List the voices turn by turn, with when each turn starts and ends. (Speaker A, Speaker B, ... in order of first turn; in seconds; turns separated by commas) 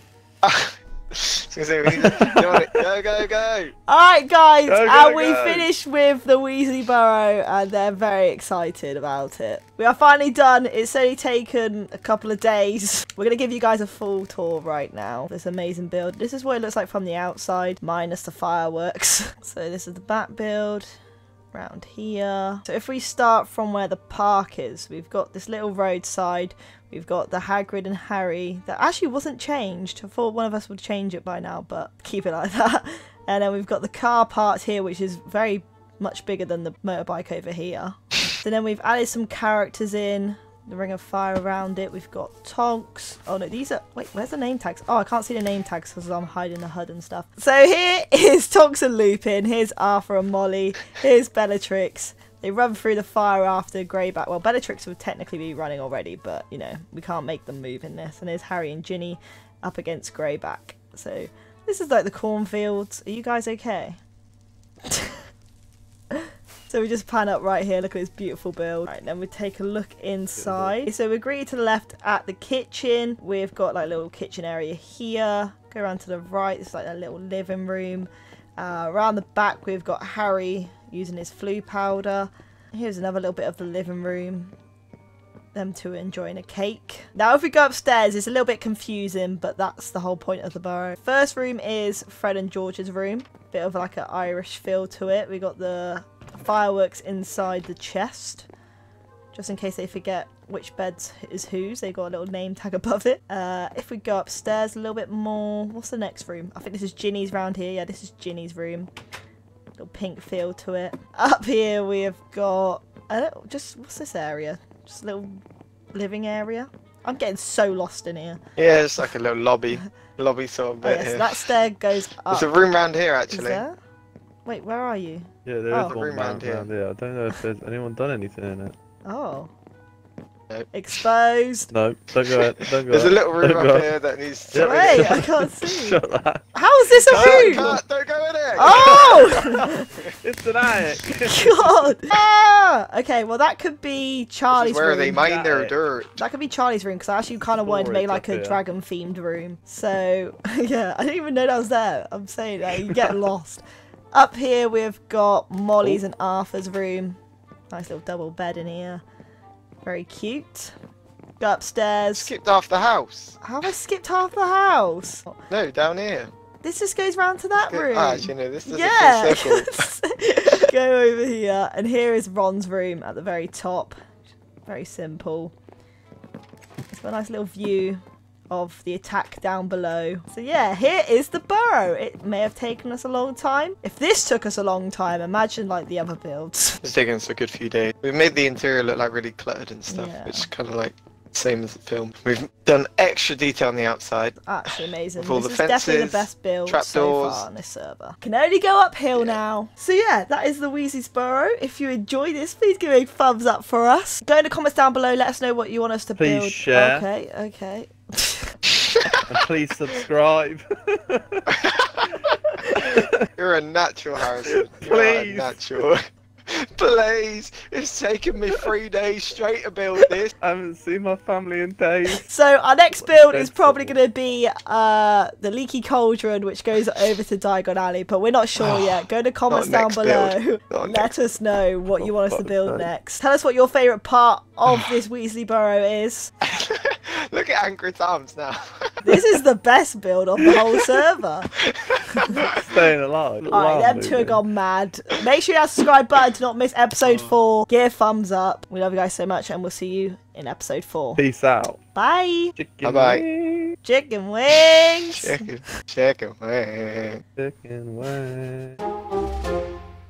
Speaker A: 0.4-3.7, Speaker B: 1.9-2.6, Speaker C: 3.9-20.9, Speaker B: 4.7-5.7, Speaker C: 21.5-64.0, Speaker C: 64.8-65.2, Speaker C: 66.1-84.5, Speaker B: 70.3-70.8, Speaker C: 85.5-98.5, Speaker C: 99.3-108.9, Speaker C: 109.8-115.4, Speaker C: 115.9-118.4, Speaker A: 118.6-121.5, Speaker C: 120.8-122.7, Speaker A: 122.3-123.6, Speaker C: 123.3-123.7, Speaker C: 124.5-126.0, Speaker B: 125.5-128.7, Speaker A: 125.8-126.7, Speaker C: 129.1-129.5, Speaker C: 130.7-131.7, Speaker B: 131.7-133.9, Speaker A: 132.3-135.2, Speaker B: 134.5-136.4, Speaker C: 134.6-136.0, Speaker C: 136.5-137.8, Speaker B: 137.0-137.8, Speaker A: 137.1-140.1, Speaker C: 138.6-139.9, Speaker B: 138.6-139.6, Speaker B: 140.2-141.9, Speaker C: 141.2-145.2, Speaker A: 144.5-146.2, Speaker B: 145.1-145.7, Speaker C: 146.2-153.6, Speaker B: 147.6-148.6, Speaker C: 154.1-157.2, Speaker C: 157.7-159.0, Speaker C: 159.8-160.7, Speaker C: 161.4-162.3, Speaker A: 162.1-163.4, Speaker C: 163.4-165.4, Speaker A: 165.5-166.3, Speaker C: 166.6-173.9, Speaker A: 167.6-169.9, Speaker A: 170.4-170.7, Speaker C: 174.7-175.5, Speaker C: 176.9-186.8, Speaker A: 186.8-197.4, Speaker C: 189.9-190.5, Speaker C: 194.4-208.5, Speaker A: 199.1-199.4, Speaker B: 206.2-207.1, Speaker B: 209.3-211.5, Speaker A: 211.5-212.3, Speaker B: 212.7-213.2, Speaker A: 213.4-220.3, Speaker B: 214.5-215.6, Speaker B: 220.4-222.3, Speaker C: 222.1-236.3, Speaker B: 222.9-224.0, Speaker A: 228.6-231.1, Speaker B: 232.0-232.9, Speaker A: 236.4-239.2, Speaker C: 239.0-241.5, Speaker A: 241.7-242.6, Speaker B: 242.3-244.4, Speaker C: 243.5-251.2, Speaker B: 251.2-251.8, Speaker C: 251.9-252.5, Speaker B: 252.5-253.7, Speaker A: 252.8-253.2, Speaker C: 253.8-255.5, Speaker A: 255.1-257.2, Speaker B: 257.4-258.8